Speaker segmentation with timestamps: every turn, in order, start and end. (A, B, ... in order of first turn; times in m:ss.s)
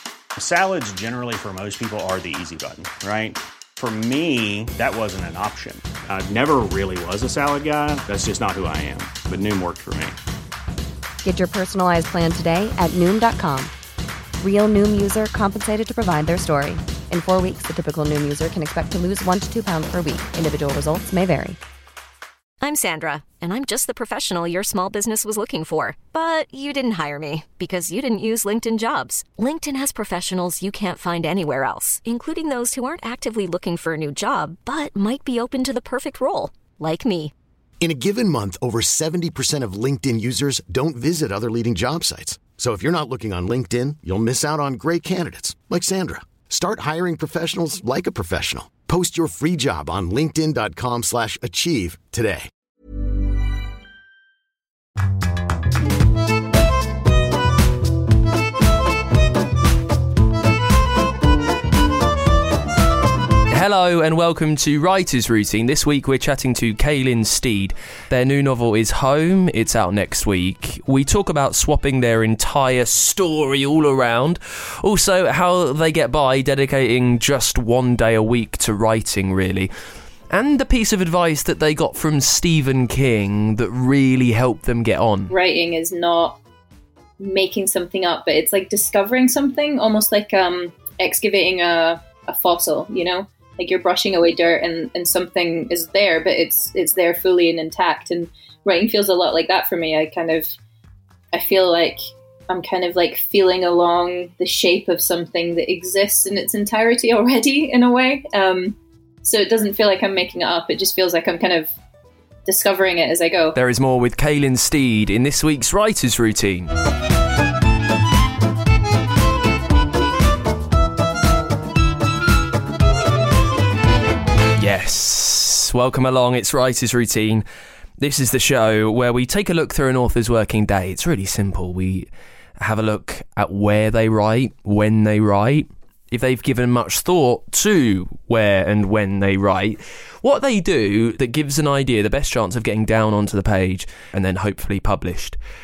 0:00.4-0:10.2 A
0:11.2-0:13.7 B
0:14.4-0:21.6 B
0:22.6-0:37.3 C
0:37.8-0:52.5 D
1:03.5-1:19.7 E
1:20.3-1:25.3 E
1:25.3-1:26.4 F
1:27.2-1:40.6 F
1:41.3-1:51.8 F
1:52.5-1:53.6 F
1:53.6-1:56.7 E
2:04.6-2:07.4 E
2:08.0-2:25.4 E